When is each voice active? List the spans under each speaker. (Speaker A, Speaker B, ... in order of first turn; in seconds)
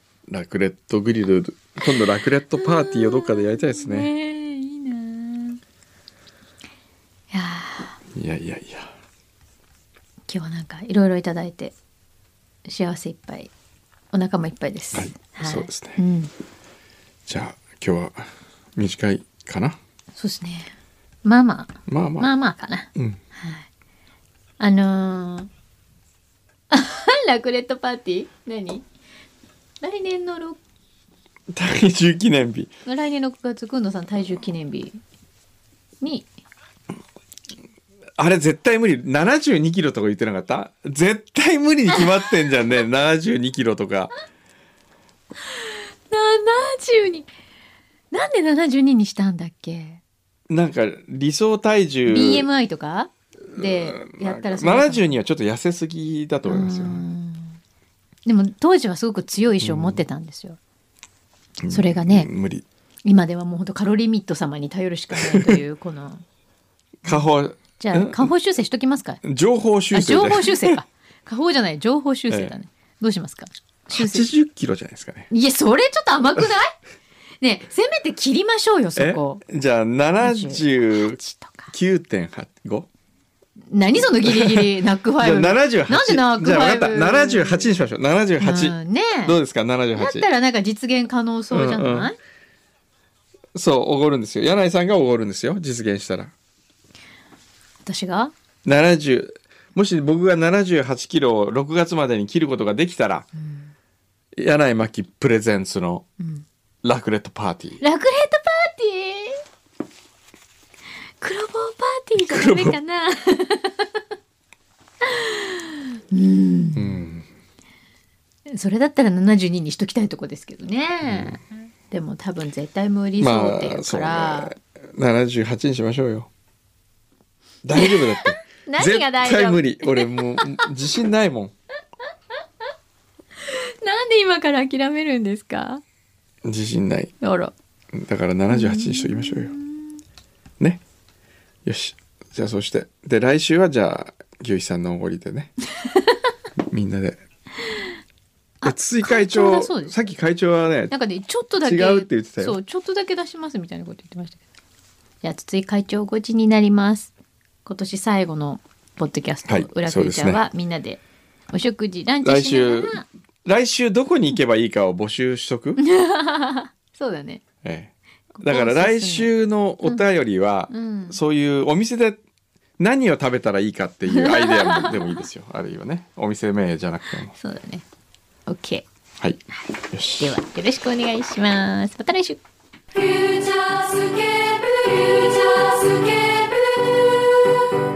Speaker A: 0.3-4.1, 8.1-8.9, 14.9-16.0, 17.3-19.8, 21.9-22.3, 31.5-32.7, 38.2-44.1, 50.5-52.5, 53.5-57.0, 59.6-60.0, 61.6-62.6, 65.2-65.6, 67.0-68.3, 69.2-70.7, 72.3-72.5, 73.9-75.3, 79.0-82.9, 84.2-90.3, 91.5-92.1, 93.5-96.3, 98.6-103.3, 104.3-106.1, 106.8-107.8, 112.2-112.8, 116.8-117.3, 121.0-121.4, 123.2-126.3, 127.6-131.5, 136.4-137.1, 137.9-139.5, 141.6-145.5, 146.6-147.2, 148.6-150.9, 151.6-152.6, 159.5-160.4, 162.2-165.8, 167.6-172.2, 172.8-177.3, 179.9-180.3
Speaker B: 2.5-5.6, 7.3-8.0, 10.3-11.7, 12.7-13.5, 14.1-16.3, 20.1-23.7, 24.6-25.5, 26.7-28.8, 29.8-30.6, 32.8-35.0, 36.0-36.3, 46.1-47.3, 48.1-50.0, 52.0-55.1, 56.5-57.6, 58.2-60.6, 61.7-62.3, 63.0-66.2, 67.8-69.2, 69.9-74.3, 75.3-76.7, 77.4-79.4, 80.2-81.7, 83.7-87.7, 88.4-89.4, 89.9-92.2, 97.8-98.3, 103.4-103.7, 106.2-106.4, 107.8-109.4, 111.2-113.9, 115.0-117.0, 118.5-124.5, 127.8-130.6, 133.4-135.8, 137.2-137.5, 138.5-139.9, 148.6-149.9, 150.9-154.4, 155.2-157.1, 157.6-163.0, 165.8-167.4, 168.4-169.3, 170.7-171.2, 174.1-175.1, 177.3-177.8, 178.5-178.8, 180.2-182.4
Speaker C: 182.9-187.6